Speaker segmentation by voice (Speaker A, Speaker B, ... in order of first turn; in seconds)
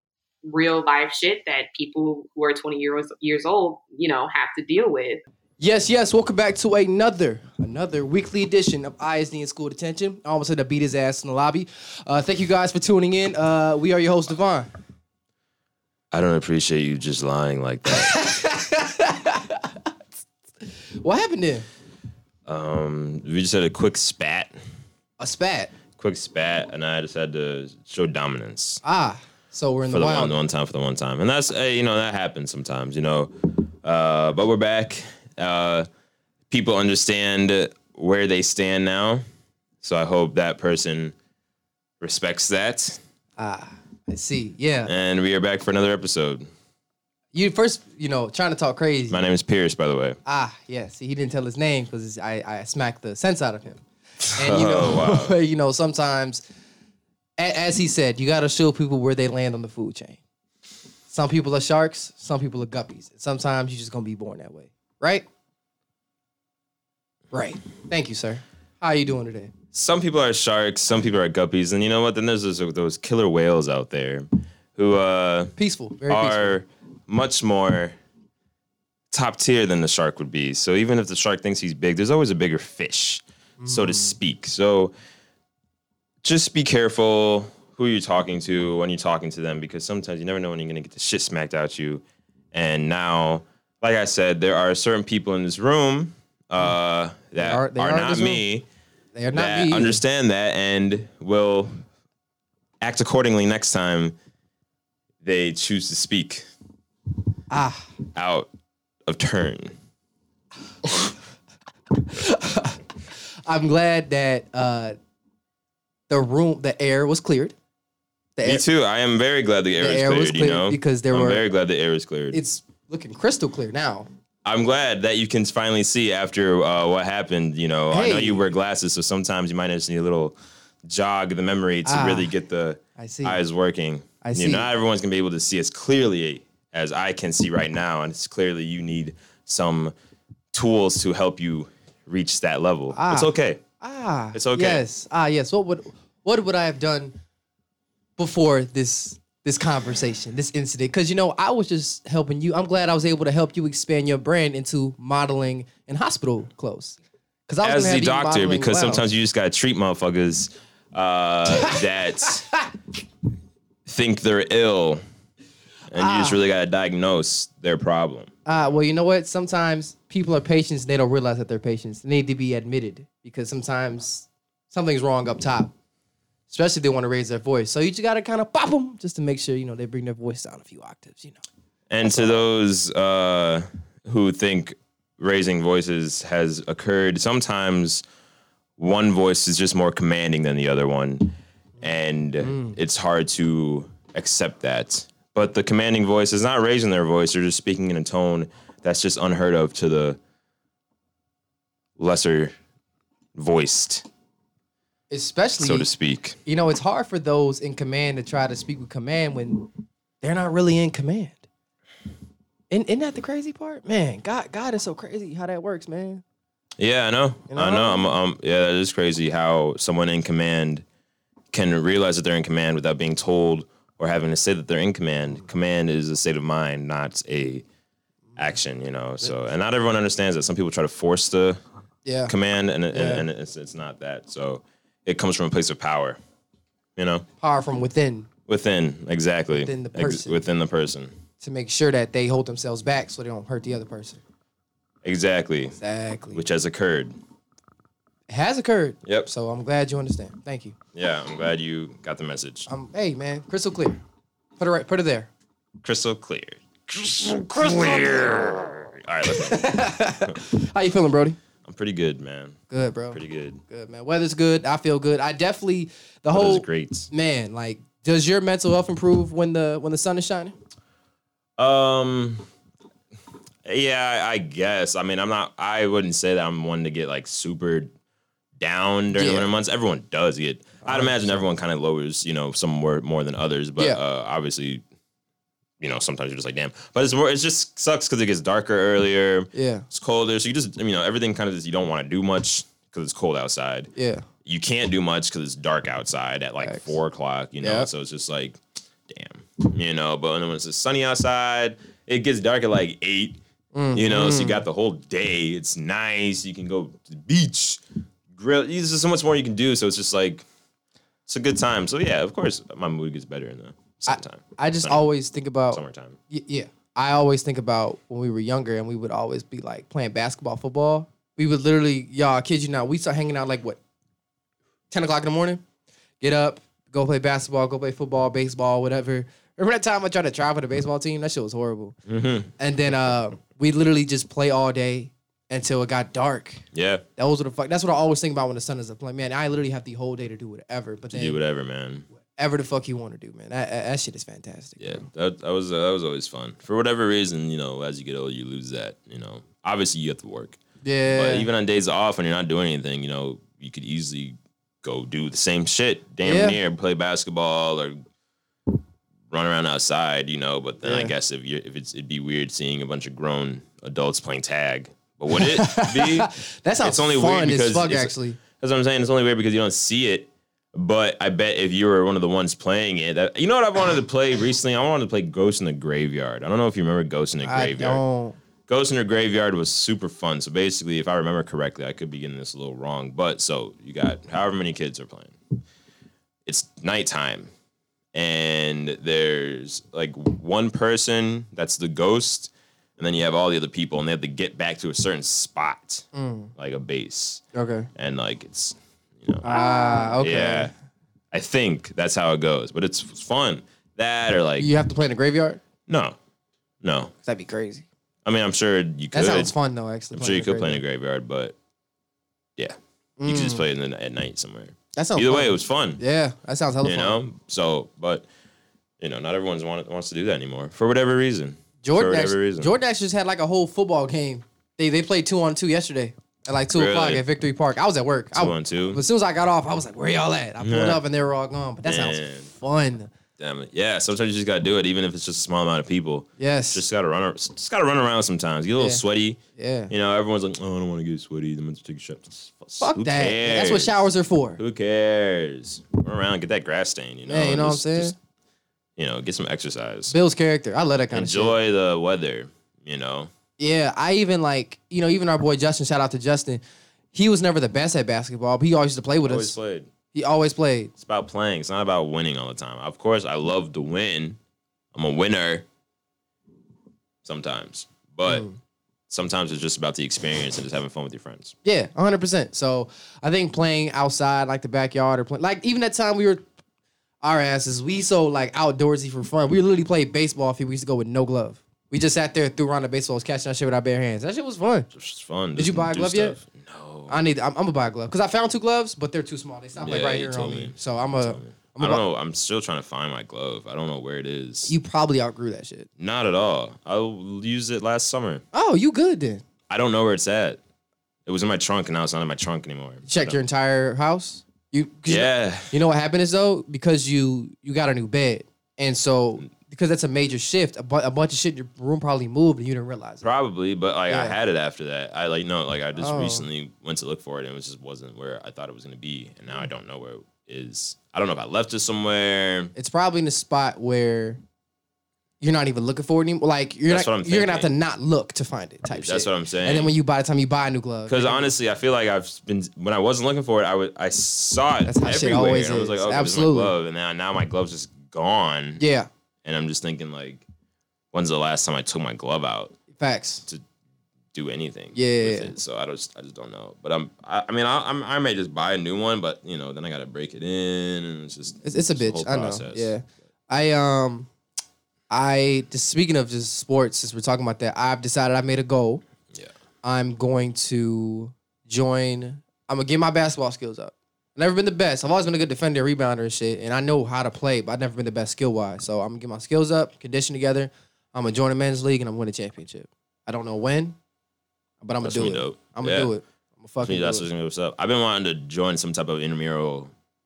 Speaker A: 0.4-5.2
Speaker B: 5.6-14.7, 17.9-19.9, 20.6-21.6, 25.2-25.7, 28.8-30.4, 43.4-44.9, 47.3-49.2, 50.2-53.8, 54.3-56.4, 57.4-60.2, 61.1-65.2, 67.3-69.5, 75.6-76.6, 83.6-84.2, 97.4-98.4, 99.1-100.0, 107.5-107.9, 111.9-112.8, 113.5-115.0, 116.1-117.5, 118.3-118.6, 119.8-121.4, 122.3-124.1, 127.9-128.4, 131.8-132.3, 133.0-133.4, 134.2-134.7, 142.9-147.1, 148.2-159.0, 161.5-162.7, 165.9-166.4, 168.4-175.7, 176.5-181.4, 182.0-182.4, 192.4-192.8, 205.1-205.9, 206.4-211.4, 212.7-216.2, 217.5-218.1, 232.0-232.3, 232.9-233.2, 237.4-238.3, 239.5-240.4, 241.4-244.2, 245.8-246.4, 248.3-250.8, 252.7-254.0, 254.6-255.3, 257.6-258.6, 259.2-261.4, 262.7-270.5, 279.1-279.5, 280.8-281.4, 289.5-289.9, 293.9-294.2, 296.6-296.9, 297.6-297.9, 303.7-304.6, 314.1-323.8, 324.9-325.6, 326.2-331.9, 332.6-336.6, 337.2-341.4, 342.4-345.0, 350.8-351.5, 356.2-356.6, 360.8-361.1, 365.3-368.4, 377.4-378.4, 396.1-396.5, 397.5-397.9, 399.4-400.7, 404.6-405.6, 407.2-407.9, 409.1-410.8, 413.2-413.6, 414.9-417.2, 421.8-433.1, 436.4-436.8, 439.6-439.9, 442.8-444.6, 447.3-448.1, 450.1-451.5, 453.6-456.6, 457.1-459.5, 460.1-460.9, 468.2-468.6, 471.6-476.4, 477.2-484.9, 485.6-486.4, 487.1-492.0, 494.7-495.9, 498.5-499.4, 503.1-513.2, 514.1-514.4, 516.0-516.5, 522.7-524.4, 525.4-531.5, 534.8-536.7, 538.8-539.1, 542.9-543.5, 544.9-545.5, 551.6-554.3, 555.1-559.0, 559.8-574.0, 574.8-577.2
Speaker C: 16.1-18.2, 22.4-24.5, 25.9-28.8, 29.8-35.9, 36.5-39.2, 39.8-41.1, 42.0-43.0, 44.9-46.5, 49.1-50.2, 54.2-55.4, 69.7-75.5, 76.1-77.9, 79.1-84.9, 86.2-98.6, 99.3-101.8, 102.8-104.1, 105.2-106.5, 108.1-108.5, 109.0-109.7, 118.4-122.4, 124.4-139.9, 140.5-143.6, 144.3-144.8, 157.6-162.5, 163.8-165.0, 165.9-168.3, 181.9-188.0, 188.8-200.2, 202.0-202.5, 203.3-204.1, 205.6-206.4, 216.8-220.8, 221.5-227.6, 228.4-231.6, 232.3-236.2, 237.0-237.2, 238.5-241.1, 245.0-245.8, 246.3-247.1, 249.0-249.3, 250.9-252.7, 255.8-260.4, 261.6-262.6, 263.1-263.6, 266.3-267.1, 271.6-272.5, 273.6-277.9, 278.6-284.8, 285.8-293.9, 294.4-303.4, 303.9-307.8, 308.3-310.4, 311.3-315.1, 315.7-316.2, 332.1-332.5, 336.7-337.0, 341.1-342.1, 344.8-358.0, 359.3-378.0, 378.7-385.3, 386.4-387.5, 388.1-397.4, 397.9-399.6, 400.1-400.7, 401.3-404.7, 405.9-406.2, 406.8-407.1, 408.2-409.5, 410.1-411.5, 412.6-416.0, 416.8-418.3, 419.0-422.7, 426.7-427.2, 428.3-429.0, 430.6-431.0, 431.8-432.5, 433.4-444.0, 444.6-448.1, 449.0-450.1, 451.1-453.3, 459.2-459.9, 461.0-464.4, 464.9-465.6, 467.2-468.5, 469.1-471.5, 484.9-487.1, 489.8-494.7, 496.0-498.4, 499.7-500.6, 501.2-503.4, 505.1-505.7, 513.2-522.7, 526.9-527.7, 528.9-529.9, 531.1-538.8, 539.4-540.4, 541.1-542.7, 544.3-552.9, 575.0-576.1, 576.8-579.9